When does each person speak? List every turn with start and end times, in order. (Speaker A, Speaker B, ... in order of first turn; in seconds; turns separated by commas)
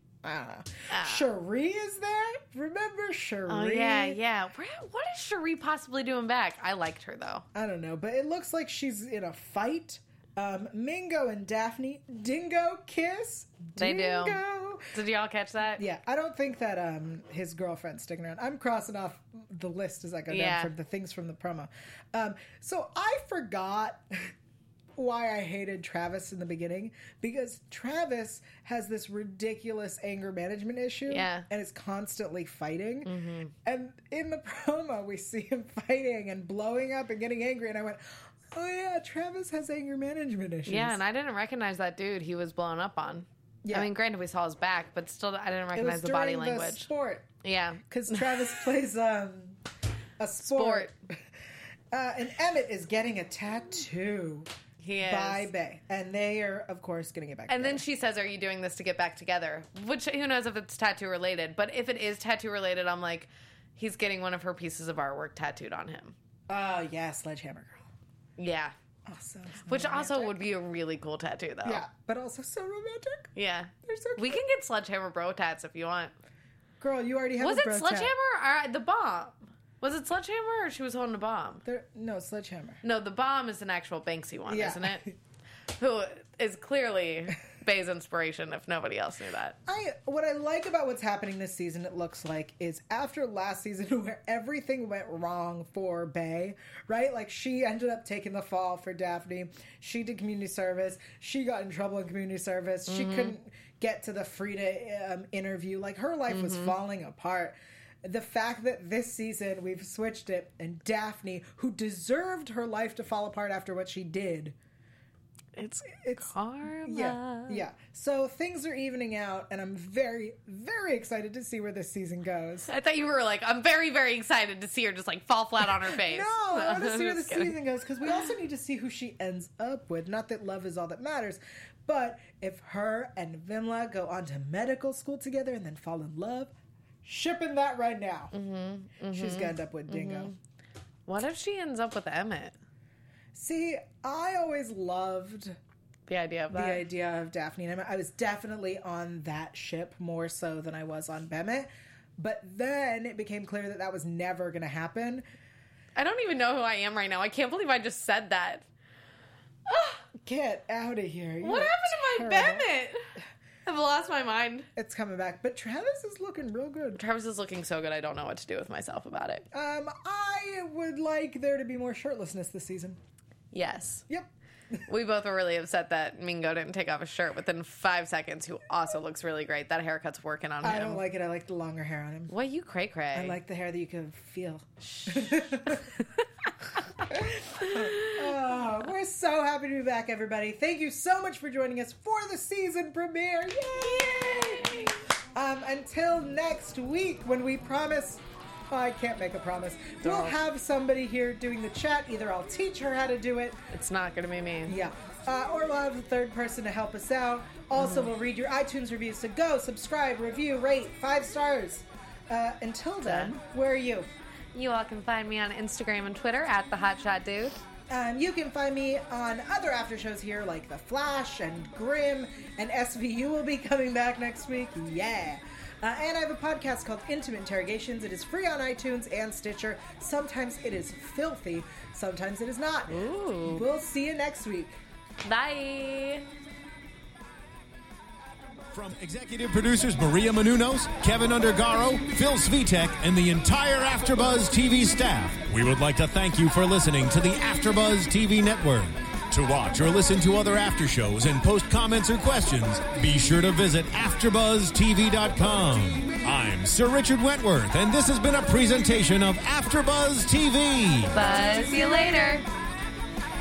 Speaker A: 0.2-4.2, Speaker B: 0.9-1.3, Speaker B: 3.5-7.5, Speaker A: 7.5-14.9, Speaker B: 13.8-14.4, Speaker B: 14.9-15.8, Speaker A: 15.8-24.3, Speaker B: 20.3-20.7, Speaker A: 25.0-33.1, Speaker B: 31.1-31.5, Speaker B: 33.1-33.5, Speaker A: 33.6-41.0, Speaker B: 40.7-46.9, Speaker A: 43.6-43.9, Speaker A: 45.7-47.3, Speaker B: 47.4-48.6, Speaker A: 47.9-49.6, Speaker A: 50.2-51.0, Speaker B: 50.4-50.9, Speaker A: 51.9-54.5, Speaker B: 54.8-55.5, Speaker A: 55.0-57.8, Speaker B: 57.5-66.1, Speaker A: 66.5-67.9, Speaker B: 68.4-68.7, Speaker A: 69.1-70.4, Speaker B: 69.7-71.8, Speaker A: 71.6-73.3, Speaker B: 73.4-76.1, Speaker A: 73.8-74.4, Speaker A: 76.8-78.1, Speaker B: 77.4-81.6, Speaker A: 81.6-82.8, Speaker B: 82.8-85.0, Speaker A: 84.5-85.1, Speaker B: 85.8-89.6, Speaker A: 89.7-114.6, Speaker B: 102.9-103.4, Speaker B: 106.3-106.7, Speaker B: 115.6-117.6, Speaker A: 116.0-122.7, Speaker B: 122.7-127.5, Speaker A: 125.9-136.5, Speaker A: 137.0-138.3, Speaker B: 138.3-140.4, Speaker A: 139.1-140.3, Speaker B: 141.1-142.6, Speaker A: 143.3-145.6, Speaker B: 146.1-146.8, Speaker A: 146.5-155.2, Speaker B: 156.0-158.7, Speaker B: 159.7-160.0, Speaker A: 160.1-162.7, Speaker B: 161.4-163.1, Speaker B: 163.7-164.7, Speaker A: 164.8-167.0, Speaker B: 167.0-169.5, Speaker A: 169.5-173.0, Speaker B: 173.5-174.1, Speaker A: 174.1-174.8, Speaker B: 174.9-181.0, Speaker A: 180.6-182.3, Speaker B: 182.3-183.4, Speaker A: 183.1-186.0, Speaker B: 184.8-186.2, Speaker A: 187.1-194.7, Speaker B: 187.6-188.3, Speaker B: 193.6-195.0, Speaker A: 195.3-203.6, Speaker B: 200.0-200.4, Speaker B: 203.7-204.7, Speaker A: 204.7-214.1, Speaker B: 207.8-208.1, Speaker B: 213.0-213.3, Speaker B: 214.5-217.6, Speaker A: 217.9-234.7, Speaker B: 232.9-233.6, Speaker B: 235.2-236.3, Speaker C: 238.7-261.2, Speaker B: 261.1-262.4